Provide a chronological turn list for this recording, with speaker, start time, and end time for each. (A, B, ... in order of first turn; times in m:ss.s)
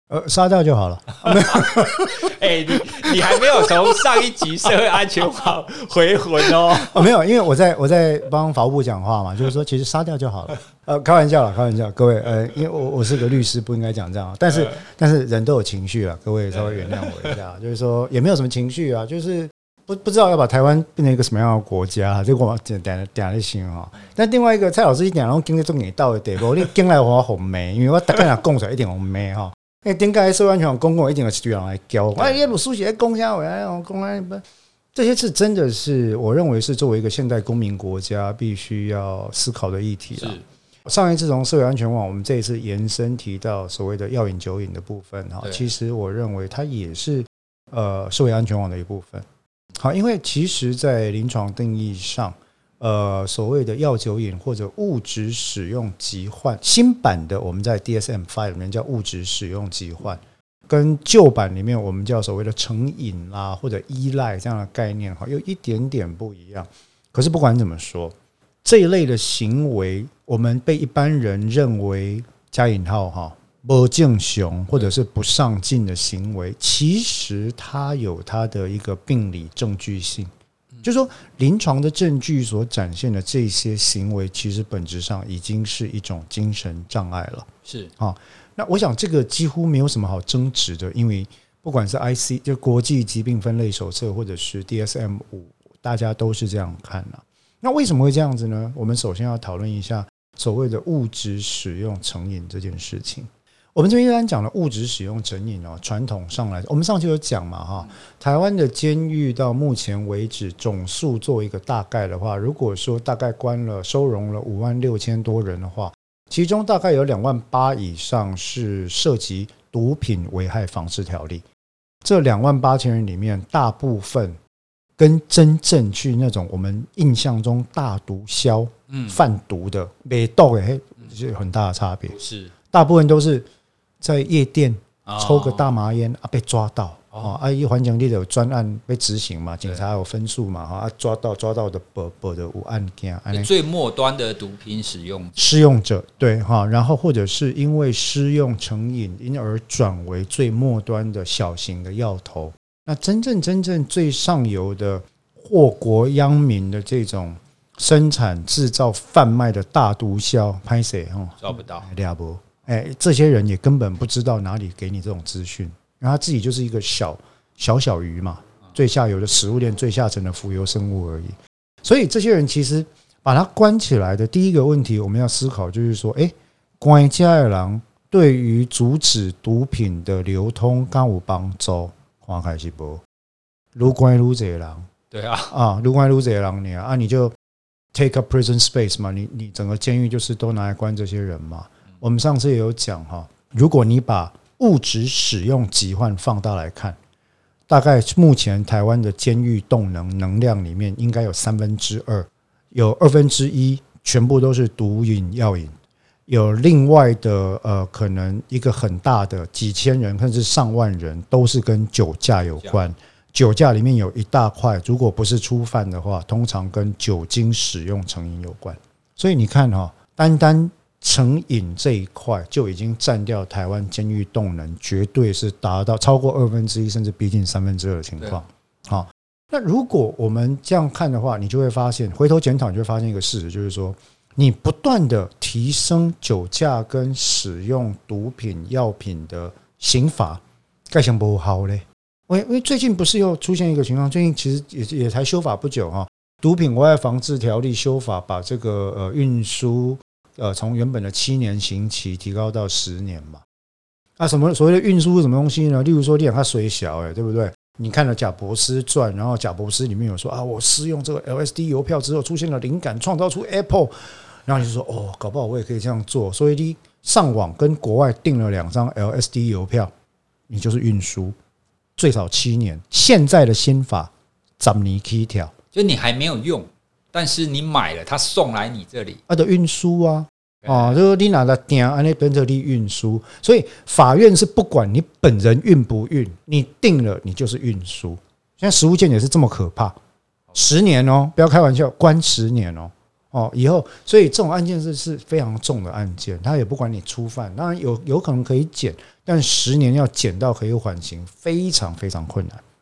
0:00.1-0:02.2 A
0:01.3-0:07.1 B
0:06.7-0:49.2 A
0:32.2-0:32.4 B
0:40.2-0:40.4 B
0:45.4-0:45.7 B
0:49.8-1:20.3 A
1:20.8-2:01.4 A
1:27.6-1:27.9 B
2:02.0-2:04.4 A
2:05.0-2:12.2 A
2:08.9-2:09.2 B
2:12.1-2:12.5 B
2:12.7-2:13.4 A
2:14.0-2:23.5 A
2:15.0-2:15.7 B
2:23.3-2:25.3 B
2:25.4-3:03.0 A
2:41.4-2:41.9 B
3:03.7-3:04.9 A
3:05.1-3:05.5 B
3:05.5-3:07.4 A
3:07.9-3:17.0 A
3:17.7-3:25.8 A
3:26.3-4:13.4 A
4:14.2-4:23.9 A
4:24.4-4:29.9 A
4:30.5-4:31.3 A
4:32.0-4:35.5 A
4:35.7-4:39.2 B
4:39.3-4:50.0 A
4:40.6-4:40.9 B
4:50.5-5:02.6 A